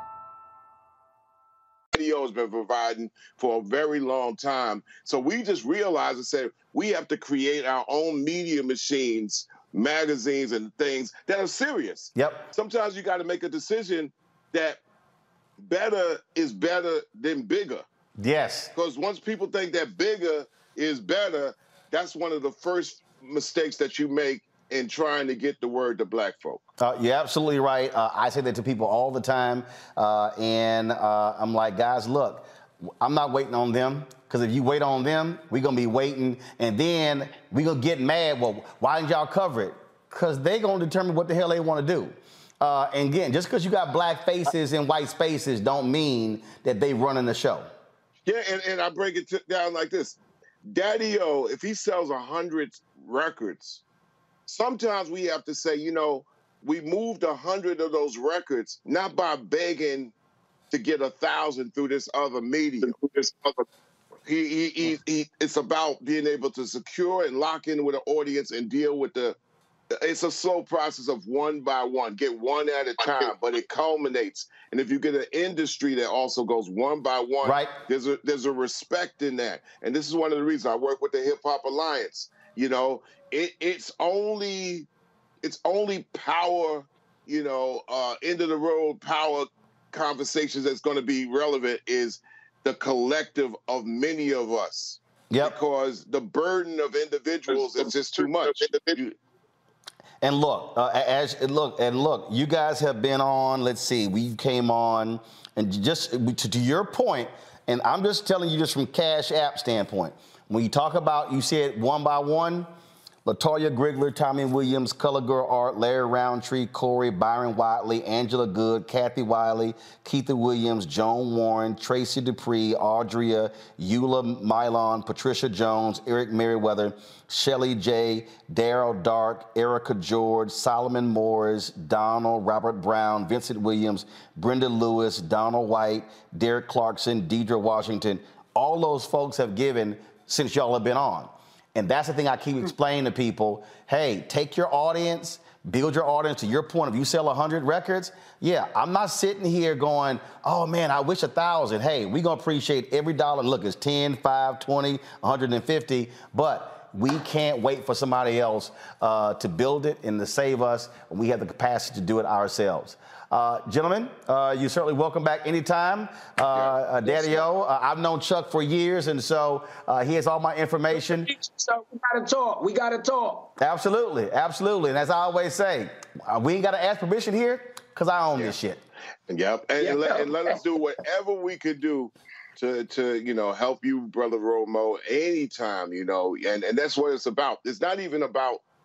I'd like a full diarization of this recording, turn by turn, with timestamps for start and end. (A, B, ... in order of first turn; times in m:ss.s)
0:01.9-0:14.8 A
0:12.2-0:12.5 B
0:15.6-0:17.8 A
0:18.2-0:18.7 B
0:18.7-0:26.6 A
0:26.8-0:32.4 B
0:33.0-0:47.7 B
0:48.2-0:50.2 A
0:50.7-0:53.8 A
0:54.5-1:00.1 A
1:00.7-1:03.5 A
1:04.2-1:09.4 A
1:09.9-1:24.9 A
1:17.4-1:17.7 B
1:25.4-1:39.1 A
1:35.3-1:35.6 B
1:40.2-1:52.7 B
1:53.2-2:51.3 B
2:51.0-2:53.5 C
2:53.6-2:58.8 B
2:59.3-3:08.6 A
2:59.8-3:00.6 C